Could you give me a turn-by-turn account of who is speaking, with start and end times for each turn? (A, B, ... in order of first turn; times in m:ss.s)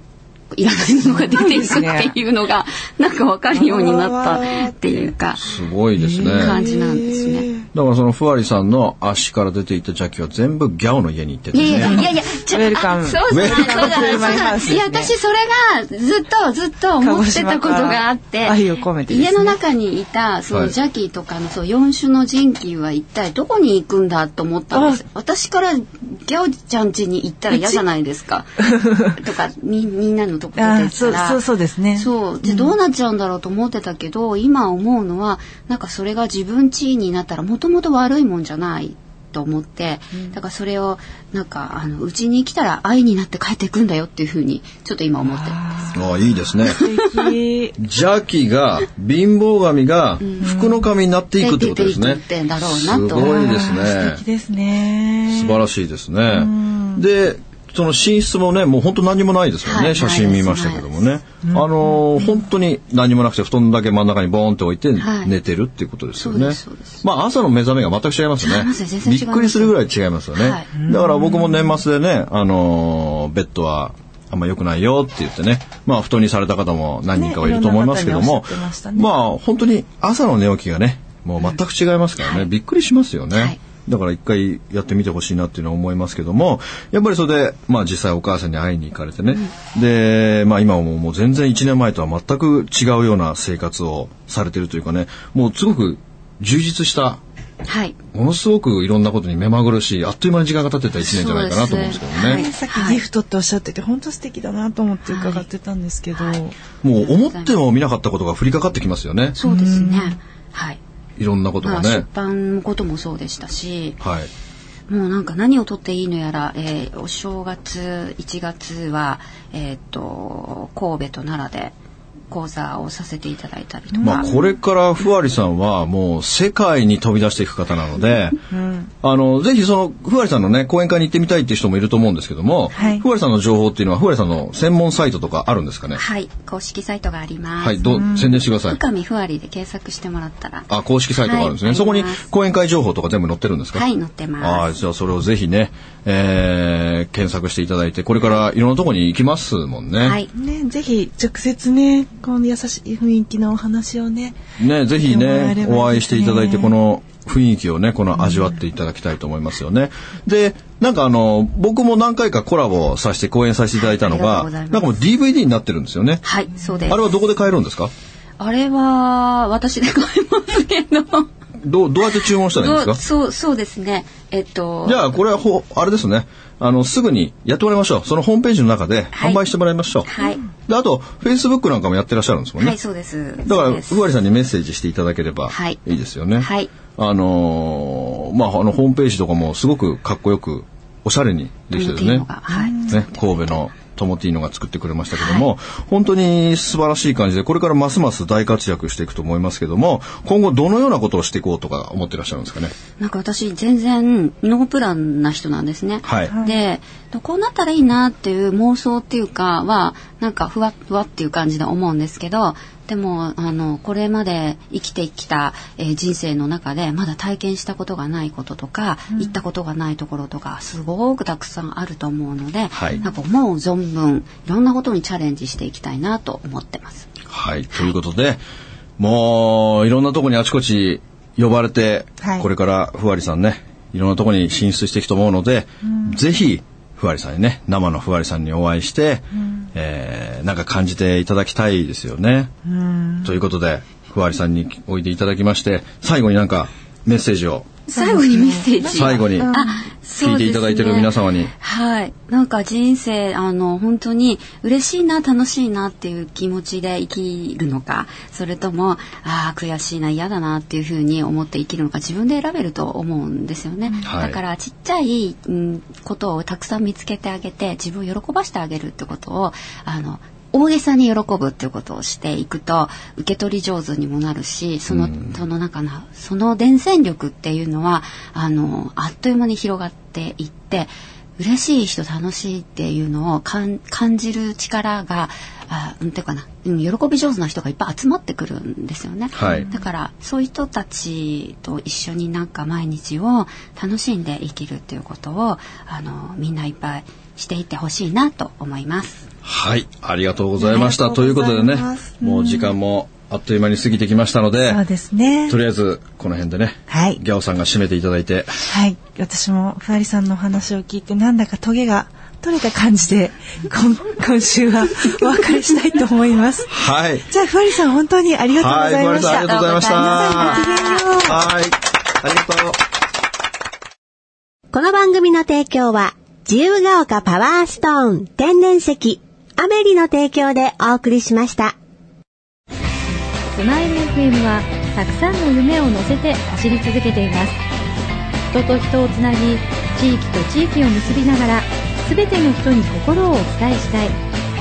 0:00.5-0:05.5 A
0:01.0-0:02.2 B
0:03.5-0:05.1 B
0:05.4-0:06.6 C
0:06.0-0:07.6 B
0:06.3-0:07.5 A
0:07.7-0:12.0 C
0:11.5-0:31.4 A
0:11.8-0:15.1 B
0:13.3-0:14.6 C
0:17.0-0:19.6 B
0:24.7-0:25.0 B
0:27.5-0:27.8 B
0:28.7-0:29.2 B
0:30.6-0:32.7 B
0:32.0-0:46.0 A
0:45.2-0:47.8 B
0:45.9-0:46.8 C
0:46.6-0:47.2 A
0:47.8-0:54.2 C
0:50.2-0:50.5 A
0:50.4-0:50.8 B
0:51.4-0:53.8 A
0:53.1-0:55.6 B
0:55.3-1:37.2 C
0:56.3-0:57.0 B
0:59.6-1:01.0 A
1:01.4-1:02.4 B
1:05.0-1:05.3 A
1:06.2-1:07.0 A
1:08.4-1:09.8 A
1:10.3-1:10.7 A
1:10.8-1:11.7 B
1:17.2-1:19.1 B
1:37.6-1:38.0 A
1:38.1-1:42.4 C
1:41.0-1:43.0 A
1:42.1-1:46.5 B
1:45.0-1:45.5 A
1:46.8-1:49.4 C
1:47.0-1:47.5 A
1:49.4-1:50.8 A
1:49.4-1:50.2 B
1:51.2-1:52.0 C
1:51.6-1:54.0 A
1:54.0-1:54.3 C
1:54.9-2:01.7 A
2:02.3-2:04.3 A
2:03.9-2:04.5 B
2:04.0-2:08.4 C
2:08.5-2:08.9 B
2:09.0-2:16.0 C
2:12.7-2:13.0 A
2:12.7-2:13.0 B
2:15.9-2:22.2 A
2:17.6-2:18.8 C
2:17.9-2:18.3 B
2:20.7-2:23.8 C
2:23.7-2:24.7 A
2:24.4-2:30.2 C
2:30.0-2:30.3 A
2:30.3-2:34.4 B
2:34.6-2:46.2 C
2:35.0-2:36.7 B
2:43.8-2:45.0 A
2:46.2-2:47.0 A
2:46.9-2:47.9 C
2:48.4-2:51.3 A
2:51.6-2:53.0 C
2:52.2-2:55.2 A
2:54.8-3:02.8 C
2:59.1-2:59.4 A
3:00.0-3:00.4 A
3:02.6-3:04.0 A
3:03.4-3:12.2 C
3:05.5-3:05.8 A
3:06.4-3:06.7 A
3:11.7-3:13.5 A
3:12.5-3:12.8 B
3:12.8-3:22.7 C
3:15.1-3:15.4 A
3:23.0-3:47.1 A
3:26.0-3:26.3 C
3:42.7-3:43.0 C
3:47.3-3:48.4 C
3:49.0-4:02.5 C
3:52.2-3:52.4 B
3:55.8-3:56.1 B
4:02.6-4:03.3 B
4:03.2-4:07.8 C
4:07.9-4:59.2 A
4:07.9-4:09.8 B
4:08.9-4:09.5 C
4:10.1-4:11.5 C
4:24.0-4:24.4 C
4:34.9-4:35.3 C
4:49.3-4:49.6 C
4:59.4-5:04.8 C
5:00.6-5:02.7 B
5:04.7-5:05.6 B
5:05.5-5:08.5 C
5:06.9-5:07.2 B
5:08.7-5:16.7 B
5:16.7-5:17.3 C
5:17.3-5:21.4 B
5:18.6-5:20.6 C
5:19.1-5:21.0 A
5:21.2-5:22.8 C
5:24.7-5:31.7 D
5:33.5-5:37.6 E
5:38.5-5:44.1 E